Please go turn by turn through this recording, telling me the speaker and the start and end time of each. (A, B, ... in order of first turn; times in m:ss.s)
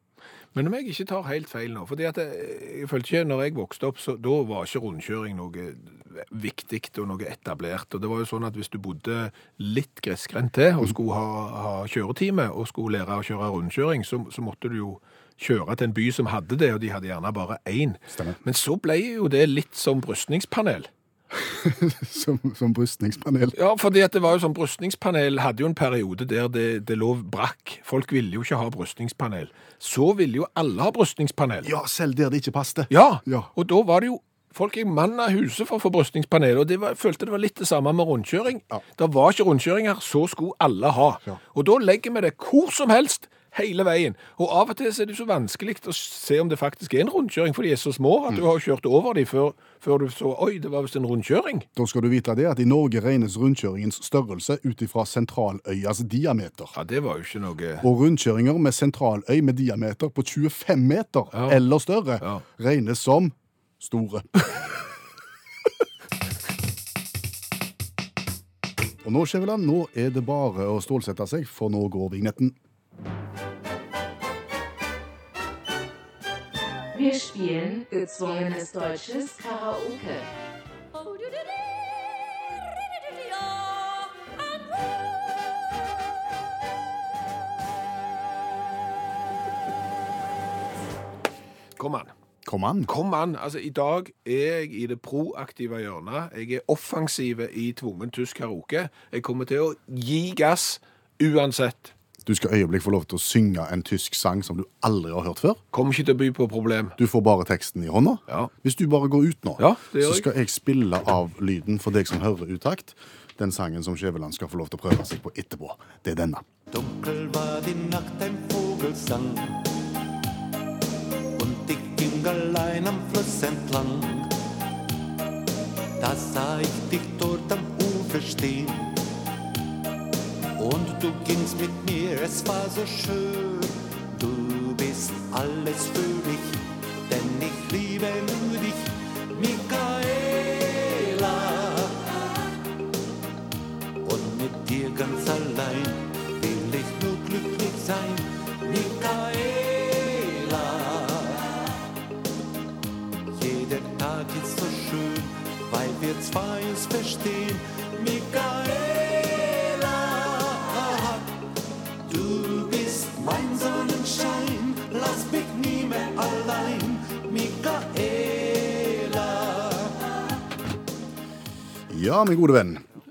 0:00.6-0:20.9 A
0:21.3-0:23.6 B
0:23.5-0:31.7 A
0:31.6-0:33.5 B
0:32.9-0:51.7 A
0:51.8-0:56.7 B
0:56.7-0:57.9 A
0:57.8-1:04.3 B
1:01.3-1:01.6 A
1:09.0-1:12.6 B
1:16.9-1:20.3 C
1:31.8-1:32.1 A
1:32.4-1:32.9 B
1:32.9-1:41.9 A
1:42.3-1:45.6 B
1:45.7-1:47.0 A
1:47.0-1:56.5 B
1:49.6-1:50.3 A
1:56.7-1:59.7 D
2:01.4-2:04.4 D
2:06.0-2:09.0 D
2:10.6-2:22.1 D
2:24.0-2:31.6 D
2:33.3-2:41.4 D
2:42.0-2:50.0 D
2:51.9-2:52.8 B